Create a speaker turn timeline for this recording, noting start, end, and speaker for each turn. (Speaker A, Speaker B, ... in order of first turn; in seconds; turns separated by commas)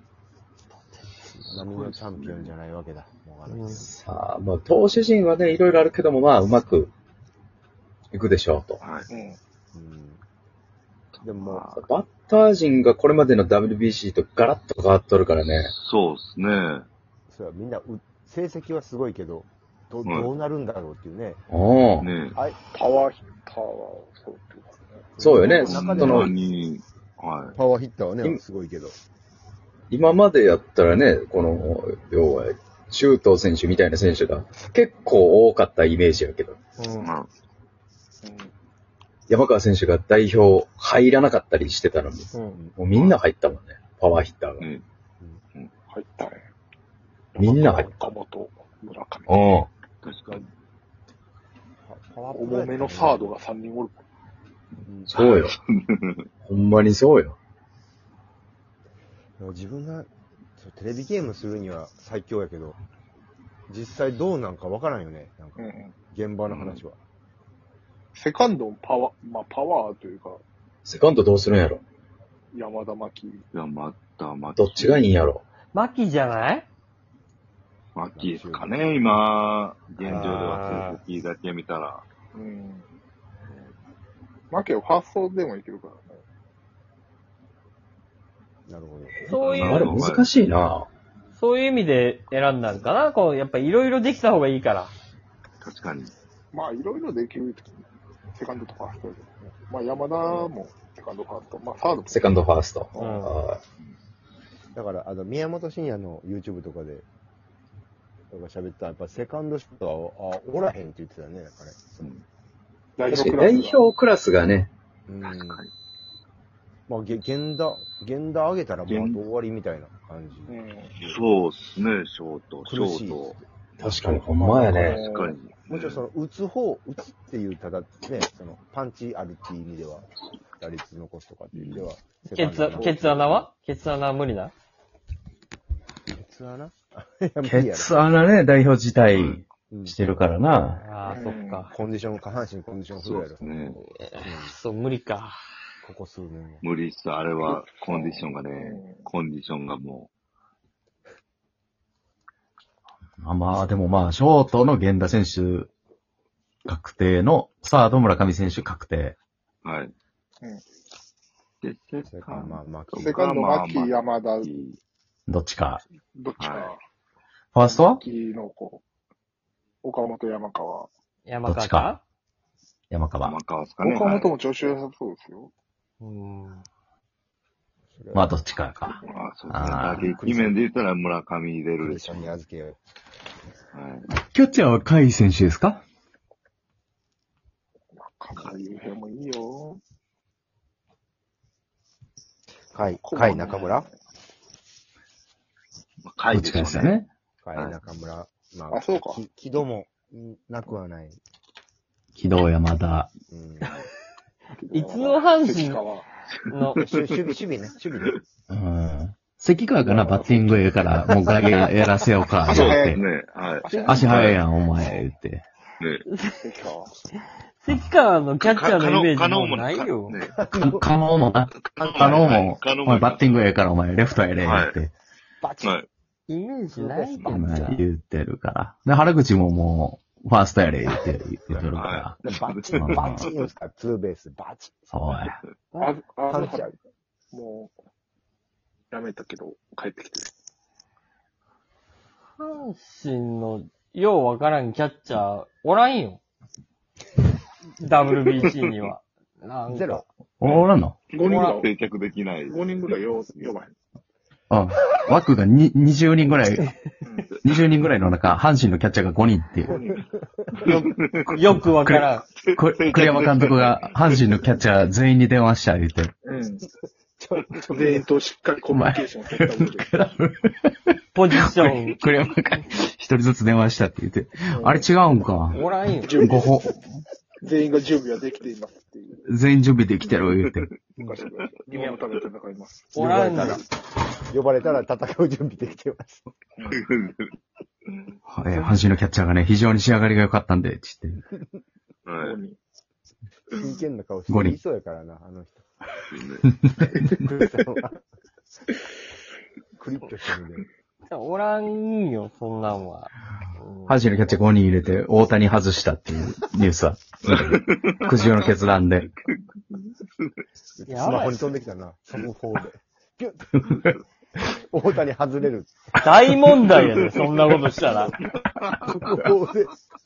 Speaker A: 0.9-1.5, Speaker B: 1.5-4.0, Speaker C: 1.5-2.5, Speaker A: 3.5-3.8, Speaker D: 3.9-6.9, Speaker D: 8.1-8.8, Speaker C: 8.8-9.1, Speaker E: 9.1-9.4, Speaker B: 9.7-10.2, Speaker C: 11.1-11.9, Speaker B: 11.2-11.7, Speaker D: 11.7-15.7, Speaker C: 15.7-16.9, Speaker B: 17.3-21.4, Speaker C: 20.1-20.3, Speaker D: 21.5-22.1, Speaker C: 22.0-22.4, Speaker B: 22.3-22.6, Speaker E: 22.7-25.1, Speaker B: 25.2-26.4, Speaker D: 25.2-26.3, Speaker C: 25.6-27.6, Speaker B: 27.5-29.0, Speaker D: 29.9-36.6, Speaker A: 36.8-37.1, Speaker C: 37.0-37.3, Speaker E: 38.2-38.5, Speaker D: 39.3-44.6, Speaker A: 42.3-42.6, Speaker E: 45.9-46.5, Speaker E: 47.4-49.5, Speaker D: 47.4-48.0, Speaker D: 49.3-49.7, Speaker C: 50.0-50.5, Speaker B: 51.9-53.3, Speaker E: 52.3-54.0, Speaker B: 54.8-55.1, Speaker D: 55.1-55.5, Speaker C: 55.1-56.3, Speaker D: 56.5-57.4, Speaker B: 59.4-62.8, Speaker B: 63.7-67.0, Speaker E: 65.6-66.0, Speaker C: 66.5-66.8, Speaker E: 68.2-70.4, Speaker D: 70.8-71.8, Speaker E: 72.5-73.4, Speaker C: 73.5-75.1, Speaker D: 74.6-75.4, Speaker A: 75.7-76.7, Speaker C: 78.0-82.0, Speaker B: 78.2-78.9, Speaker B: 80.0-80.6, Speaker A: 80.1-81.0, Speaker E: 82.3-82.9, Speaker C: 83.4-83.7, Speaker E: 84.5-86.2, Speaker B: 88.7-89.3, Speaker A: 89.2-90.0, Speaker C: 89.3-90.3, Speaker D: 89.3-90.9, Speaker A: 91.3-94.9, Speaker C: 95.6-96.1, Speaker E: 96.5-103.3, Speaker B: 100.2-100.5, Speaker D: 102.1-103.6, Speaker A: 103.0-103.3, Speaker B: 104.8-107.1, Speaker B: 108.3-112.1, Speaker E: 113.0-113.8, Speaker D: 113.1-114.7, Speaker B: 115.1-115.6, Speaker C: 115.2-115.7, Speaker B: 116.9-120.6, Speaker C: 118.9-119.2, Speaker E: 120.5-120.9, Speaker C: 121.0-124.1, Speaker B: 122.7-123.5, Speaker D: 123.8-125.0, Speaker B: 124.4-125.0, Speaker E: 124.8-125.3, Speaker C: 124.8-126.1, Speaker B: 125.7-133.5, Speaker C: 131.5-131.9, Speaker A: 132.3-134.5, Speaker E: 132.7-133.0, Speaker B: 136.1-138.0, Speaker D: 137.4-140.8, Speaker C: 139.1-139.4, Speaker B: 139.7-140.0, Speaker A: 140.8-141.7, Speaker E: 141.1-141.7, Speaker B: 141.7-144.6, Speaker C: 143.0-143.8, Speaker A: 144.0-145.4, Speaker B: 145.8-146.6, Speaker C: 146.6-150.1, Speaker E: 147.4-149.0, Speaker D: 153.2-155.7, Speaker D: 156.7-159.2, Speaker C: 159.6-159.9, Speaker C: 161.6-164.8, Speaker B: 162.1-163.2, Speaker E: 162.9-164.5, Speaker D: 165.3-165.8, Speaker E: 166.1-166.8, Speaker C: 166.4-166.7, Speaker D: 167.5-168.0, Speaker E: 167.6-168.8, Speaker E: 169.8-170.9, Speaker A: 171.3-172.0, Speaker D: 171.5-171.9, Speaker D: 172.9-173.3, Speaker C: 173.2-174.3, Speaker E: 173.8-175.5, Speaker A: 176.0-176.7, Speaker B: 177.9-178.3, Speaker D: 178.1-180.1, Speaker E: 179.0-179.3, Speaker C: 179.1-182.3, Speaker B: 180.0-180.6, Speaker B: 181.8-182.8, Speaker C: 183.7-184.1, Speaker D: 184.1-185.8, Speaker E: 187.9-189.8, Speaker B: 192.7-193.9, Speaker E: 193.0-193.9, Speaker C: 196.1-197.0, Speaker D: 196.3-197.1, Speaker B: 197.4-201.2, Speaker E: 198.7-199.2, Speaker D: 202.2-203.1, Speaker B: 203.3-203.7, Speaker C: 203.6-203.9, Speaker E: 204.6-206.1, Speaker A: 204.7-205.8, Speaker A: 206.5-206.8, Speaker C: 206.5-207.0, Speaker B: 206.8-208.2, Speaker D: 208.5-213.0, Speaker E: 209.8-210.5, Speaker B: 210.9-211.4, Speaker E: 212.5-213.0, Speaker C: 212.5-214.4, Speaker E: 213.6-214.4, Speaker D: 213.8-215.4, Speaker C: 215.8-216.1, Speaker A: 216.1-216.4, Speaker E: 216.4-216.9, Speaker A: 217.6-220.2, Speaker C: 218.4-220.4, Speaker B: 220.3-220.9, Speaker D: 220.6-224.9, Speaker C: 221.5-223.5, Speaker B: 222.0-222.5, Speaker C: 224.4-224.8, Speaker B: 225.4-225.8, Speaker C: 225.6-225.9, Speaker A: 226.3-227.8, Speaker B: 226.7-227.8, Speaker D: 227.2-232.2, Speaker B: 231.5-234.8, Speaker C: 231.7-233.5, Speaker D: 232.7-233.3, Speaker D: 234.9-235.4, Speaker E: 235.8-236.8, Speaker B: 236.3-236.7, Speaker E: 237.3-237.7, Speaker E: 238.9-240.3, Speaker A: 242.4-246.2, Speaker A: 247.8-250.1, Speaker B: 249.7-250.1, Speaker D: 250.4-251.0, Speaker C: 250.4-253.5, Speaker E: 251.1-251.7, Speaker A: 251.2-251.6, Speaker E: 252.5-253.7, Speaker D: 254.5-256.8, Speaker E: 257.0-257.4, Speaker C: 257.4-257.9, Speaker D: 257.4-259.7, Speaker E: 259.6-260.1, Speaker B: 259.6-260.9, Speaker C: 260.7-261.4, Speaker A: 261.3-262.2, Speaker D: 261.5-266.1, Speaker C: 262.4-264.3, Speaker E: 266.2-266.6, Speaker B: 267.2-268.0, Speaker E: 267.7-270.1, Speaker D: 268.7-275.6, Speaker A: 271.1-272.0, Speaker E: 274.6-274.9, Speaker A: 275.5-276.2, Speaker E: 276.0-276.7, Speaker D: 276.2-277.0, Speaker E: 277.4-279.2, Speaker D: 279.3-280.7, Speaker C: 280.2-280.6, Speaker E: 281.0-282.9, Speaker C: 281.2-281.5, Speaker A: 281.7-282.0, Speaker B: 282.9-283.7, Speaker A: 282.9-283.6, Speaker B: 284.3-286.3, Speaker C: 286.7-287.3, Speaker D: 288.3-291.2, Speaker C: 292.1-292.4, Speaker E: 292.2-292.6, Speaker B: 293.5-295.6, Speaker D: 294.3-294.6, Speaker C: 296.1-296.5, Speaker D: 296.4-297.2, Speaker B: 296.9-298.0, Speaker B: 299.8-300.7, Speaker A: 301.1-304.0, Speaker D: 303.9-309.1, Speaker C: 307.3-308.5, Speaker B: 310.8-313.5, Speaker A: 310.9-311.5, Speaker D: 313.6-314.0, Speaker B: 314.4-316.0, Speaker A: 316.0-318.1, Speaker C: 316.7-317.2, Speaker C: 318.6-318.9, Speaker B: 318.8-319.8